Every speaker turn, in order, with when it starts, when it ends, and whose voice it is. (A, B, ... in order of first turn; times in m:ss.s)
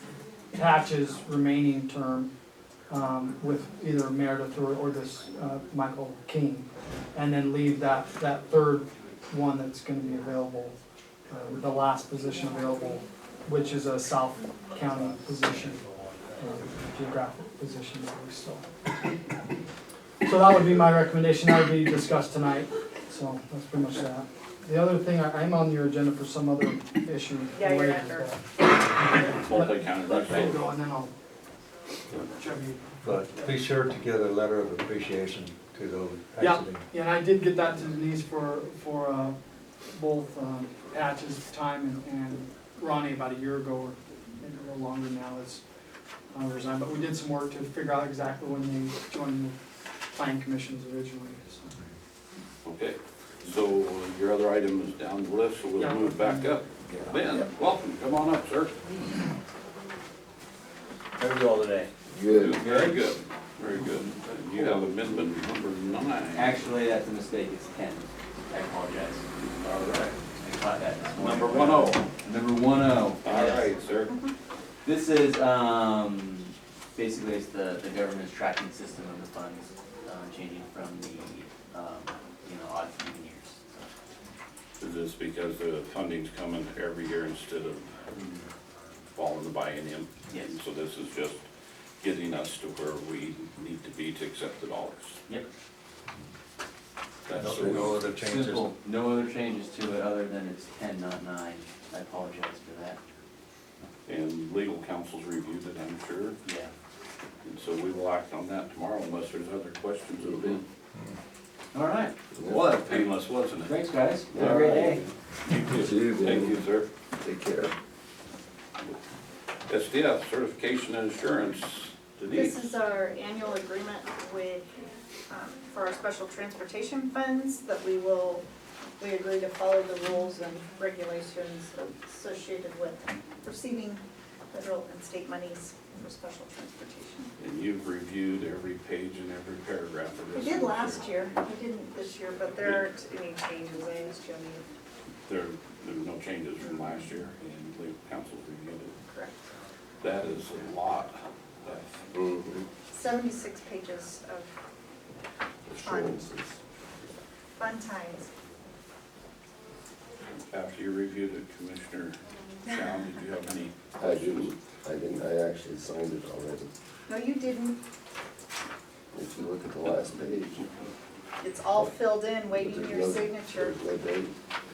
0:00.5-0:02.3 A
0:02.9-0:10.8 A
0:11.3-0:15.8 A
0:14.9-0:16.1 B
0:16.4-0:18.7 A
0:20.2-0:28.4 A
0:27.5-0:28.3 C
0:29.0-0:31.1 A
0:29.3-0:30.7 D
0:32.2-0:33.5 A
0:33.0-0:36.9 B
0:36.4-0:45.6 A
0:46.3-0:49.6 A
0:50.1-0:51.8 A
0:52.6-0:58.8 D
0:55.8-0:56.6 A
1:01.2-1:01.9 E
1:02.1-1:02.6 F
1:02.3-1:06.6 D
1:02.6-1:03.1 E
1:03.7-1:04.1 E
1:04.5-1:05.4 F
1:06.3-1:09.2 E
1:09.6-1:10.2 D
1:10.4-1:13.7 E
1:11.2-1:12.1 D
1:13.2-1:14.2 D
1:14.8-1:23.7 E
1:24.8-1:28.1 D
1:28.2-1:28.4 E
1:29.1-1:31.4 D
1:30.3-1:30.6 E
1:32.0-1:35.2 D
1:37.3-1:38.1 D
1:37.3-1:38.7 B
1:37.6-1:37.9 F
1:38.1-1:43.0 E
1:44.1-1:46.4 D
1:46.4-1:46.7 E
1:47.4-1:50.6 D
1:51.7-1:52.2 E
1:52.4-1:52.8 F
1:52.4-1:54.8 D
1:53.7-1:55.0 E
1:54.3-1:55.1 F
1:55.4-1:56.9 D
1:55.7-1:56.6 F
1:57.2-1:57.7 F
1:59.7-2:02.7 D
2:02.3-2:04.6 C
2:05.3-2:08.5 C
2:09.0-2:17.3 C
2:17.4-2:21.1 D
2:20.3-2:24.6 C
2:25.3-2:29.0 D
2:29.1-2:29.4 C
2:30.0-2:32.1 D
2:32.1-2:32.7 F
2:32.9-2:34.5 C
2:35.7-2:36.6 F
2:35.8-2:36.2 C
2:37.6-2:38.3 C
2:40.3-2:44.4 D
2:44.0-2:46.7 F
2:47.1-2:47.8 C
2:49.1-2:50.6 F
2:51.4-2:53.8 C
2:52.5-2:54.3 F